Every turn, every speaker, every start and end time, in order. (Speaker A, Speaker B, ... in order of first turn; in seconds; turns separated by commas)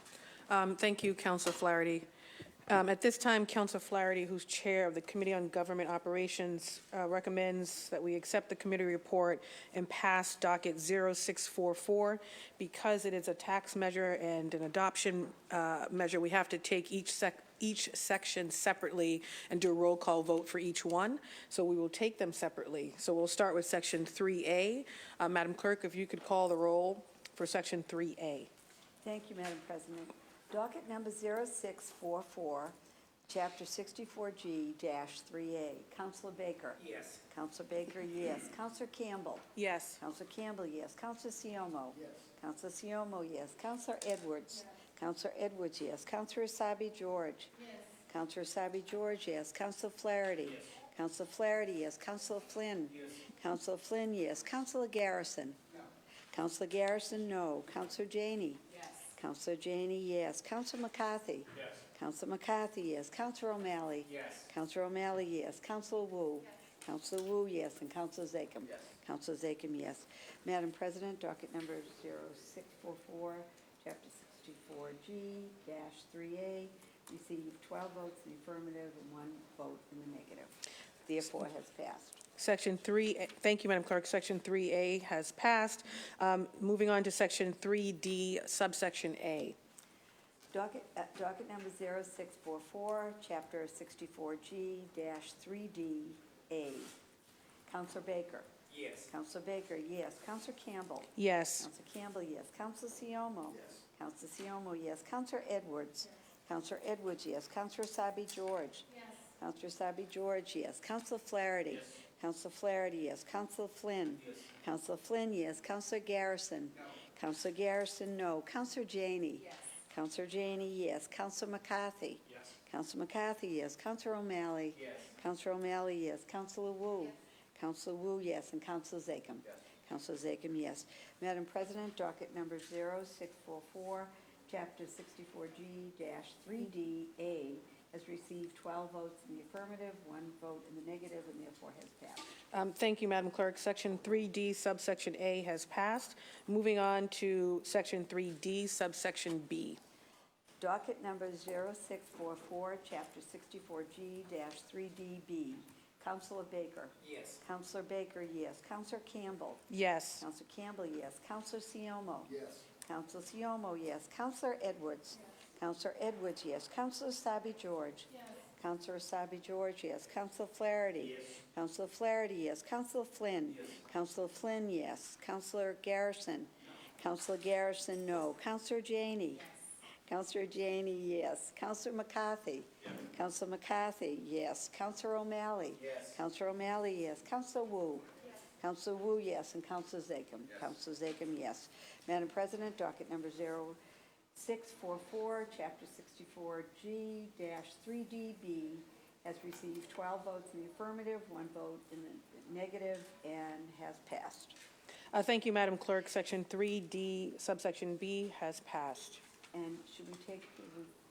Speaker A: 0.5-2.0, Speaker A: 2.7-28.5, Speaker B: 29.0-32.8, Speaker B: 33.3-47.5, Speaker A: 39.5-40.0, Speaker B: 48.1-55.6, Speaker B: 56.3-80.5, Speaker B: 81.0-82.2, Speaker A: 82.4-89.5, Speaker B: 90.5-97.0, Speaker B: 97.7-142.3, Speaker A: 101.2-101.7, Speaker A: 142.5-149.8, Speaker B: 150.6-159.7, Speaker A: 159.7-160.2, Speaker B: 160.2-179.5, Speaker B: 180.1-193.8, Speaker B: 194.3-204.6, Speaker A: 205.1-209.2, Speaker B: 209.5-210.9